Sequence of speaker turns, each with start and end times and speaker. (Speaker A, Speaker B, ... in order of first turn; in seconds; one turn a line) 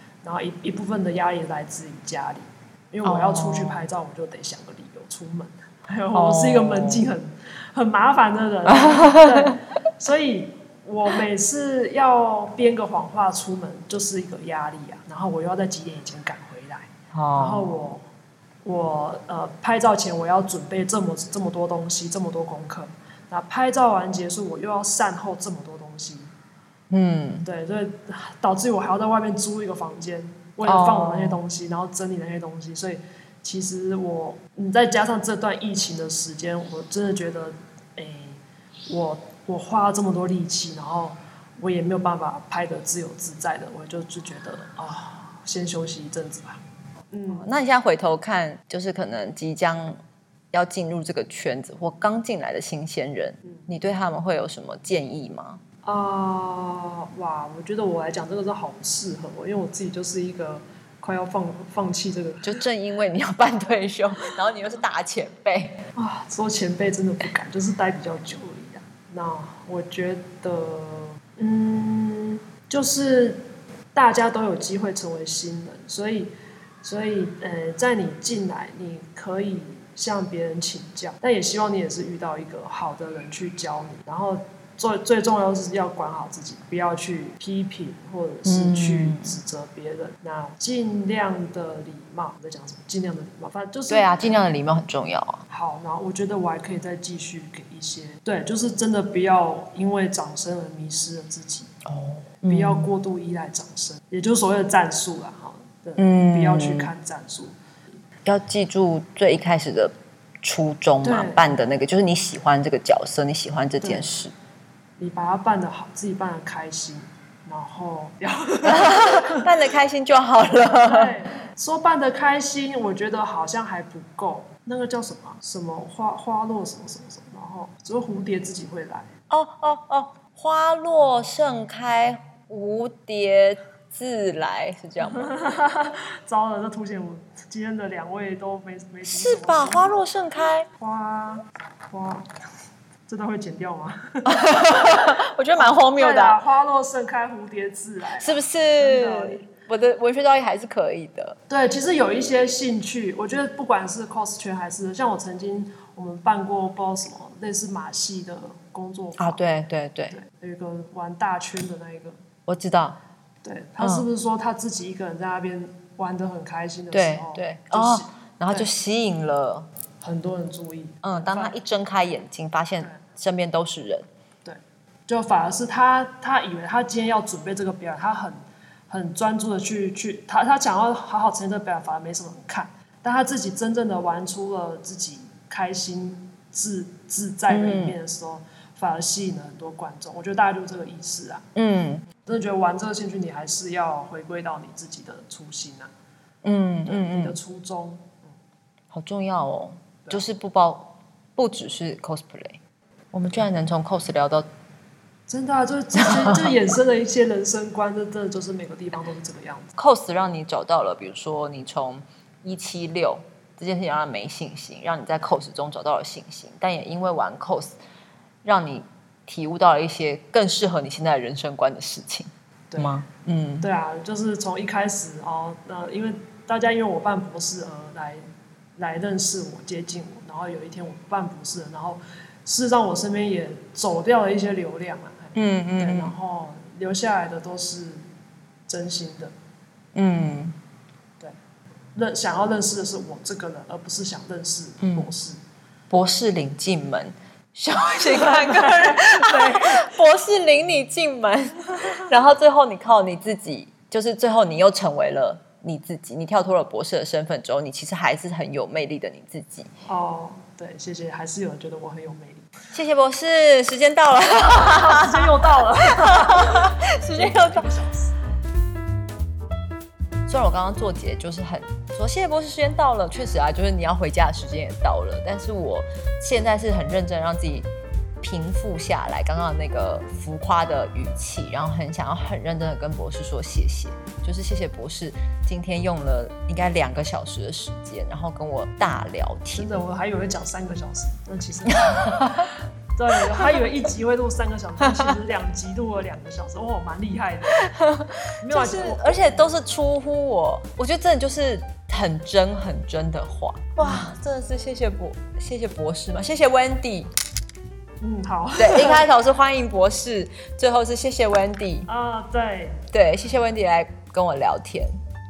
Speaker A: 0.2-18.0
Speaker B: 3.0-3.8
Speaker B: 6.1-7.0
Speaker B: 8.7-9.6
Speaker B: 17.1-17.8
Speaker A: 18.6-26.3
Speaker B: 26.9-27.5
Speaker A: 27.4-47.5
Speaker B: 30.6-31.4
Speaker B: 47.3-50.0
Speaker B: 50.5-55.6
Speaker A: 55.9-62.6
Speaker B: 62.4-65.8
Speaker A: 66.0-73.4
Speaker A: 74.0-76.3
Speaker A: 76.8-94.4
Speaker B: 88.5-89.4
Speaker B: 93.9-95.4
Speaker A: 95.5-101.7
Speaker B: 101.8-102.9
Speaker A: 102.5-107.6
Speaker B: 106.0-106.9
Speaker B: 108.2-114.3
Speaker A: 111.0-111.5
Speaker A: 113.8-114.1
Speaker A: 115.0-119.5
Speaker B: 118.7-121.2
Speaker A: 120.8-129.1
Speaker B: 129.3-135.3
Speaker A: 135.0-140.0
Speaker B: 139.1-140.7
Speaker A: 140.8-142.3
Speaker A: 143.1-149.5
Speaker B: 144.3-146.4
Speaker B: 148.2-151.4
Speaker A: 151.5-159.4
Speaker B: 159.2-160.2
Speaker A: 160.1-162.2
Speaker B: 162.5-163.0
Speaker A: 163.4-168.7
Speaker B: 163.8-164.1
Speaker B: 166.9-169.7
Speaker A: 170.0-171.6
Speaker B: 171.0-174.1
Speaker A: 174.4-191.5
Speaker B: 187.5-188.0
Speaker B: 191.6-192.1
Speaker A: 192.2-195.9
Speaker B: 196.4-197.4
Speaker A: 196.8-198.3
Speaker B: 198.9-202.6
Speaker B: 203.1-204.5
Speaker A: 205.3-209.7
Speaker B: 206.0-206.6
Speaker B: 209.8-217.8
Speaker B: 218.4-223.7
Speaker A: 222.7-223.0
Speaker A: 223.6-228.2
Speaker A: 228.8-238.0
Speaker B: 235.3-236.2
Speaker A: 238.7-239.3
Speaker B: 239.9-240.6
Speaker A: 242.0-245.4
Speaker B: 244.8-245.1
Speaker B: 245.9-259.7
Speaker A: 248.0-249.9
Speaker A: 259.9-262.5
Speaker B: 262.7-267.7
Speaker A: 264.5-268.2
Speaker B: 270.3-277.7
Speaker B: 278.2-289.7
Speaker A: 289.5-297.7
Speaker B: 291.9-292.5
Speaker B: 293.3-293.6
Speaker B: 294.8-295.1
Speaker B: 297.6-307.1
Speaker A: 298.4-299.4
Speaker A: 303.8-304.1
Speaker A: 308.0-309.1
Speaker B: 308.6-311.9
Speaker A: 311.9-312.8
Speaker B: 312.9-314.9